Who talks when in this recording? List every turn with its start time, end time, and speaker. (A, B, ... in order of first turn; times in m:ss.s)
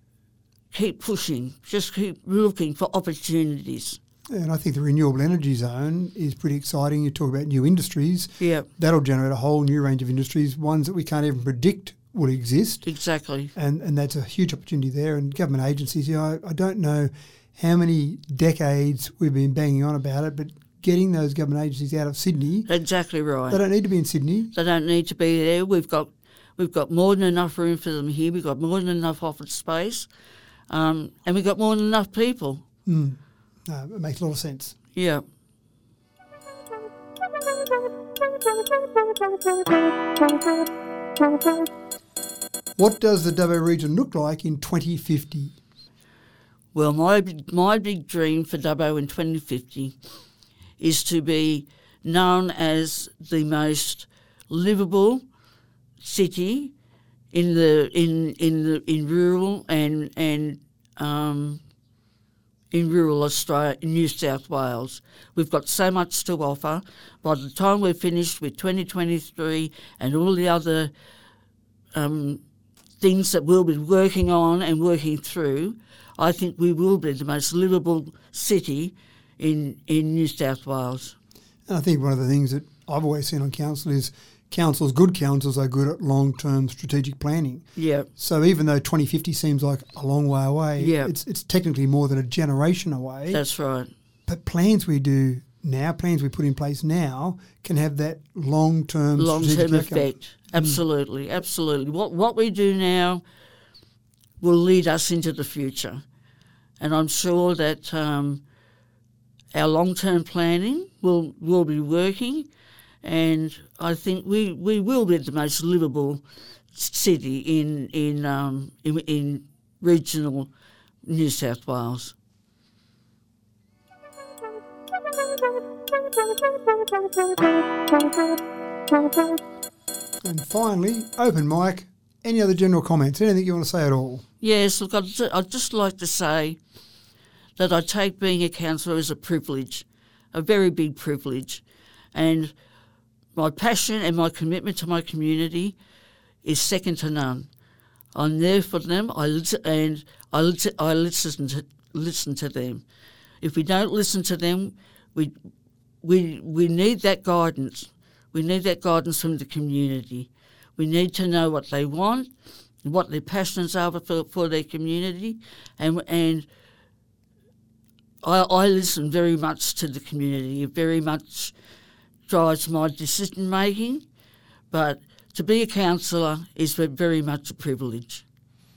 0:00.7-0:04.0 A
0:04.3-0:12.9 B
0:08.4-0:08.7 A
0:12.8-0:13.5 A
0:13.6-0:22.7 B
0:22.7-0:23.6 A
0:23.5-0:24.5 B
0:24.5-0:30.1 A
0:30.7-0:32.6 A
0:32.9-0:34.8 B
0:35.0-0:35.2 A
0:42.8-0:45.6 B
0:46.7-0:50.0 A
0:50.8-0:55.2 A
0:56.0-0:56.7 A
0:57.3-1:01.6 A
1:02.7-1:10.9 A
1:12.0-1:12.4 A
1:13.0-1:21.2 A
1:21.7-1:33.4 B
1:27.8-1:28.1 A
1:30.8-1:31.1 A
1:33.3-1:33.9 A
1:34.3-1:40.8 B
1:39.2-1:43.2 A
1:44.4-1:46.0 A
1:46.8-1:48.4 A
1:49.5-1:52.5 A
1:53.0-1:56.2 A
1:56.7-2:00.5 A
2:01.0-2:02.1 A
2:10.2-2:14.2 B
2:14.4-2:16.6 A
2:17.6-2:21.6 A
2:22.1-2:22.5 A
2:23.4-2:25.8 A
2:26.4-2:27.5 A
2:28.2-2:32.8 A
2:33.4-2:35.3 A
2:36.0-2:42.3 A
2:42.8-2:46.5 A
2:48.2-2:51.5 A
2:52.3-2:54.0 A
2:54.7-2:58.2 A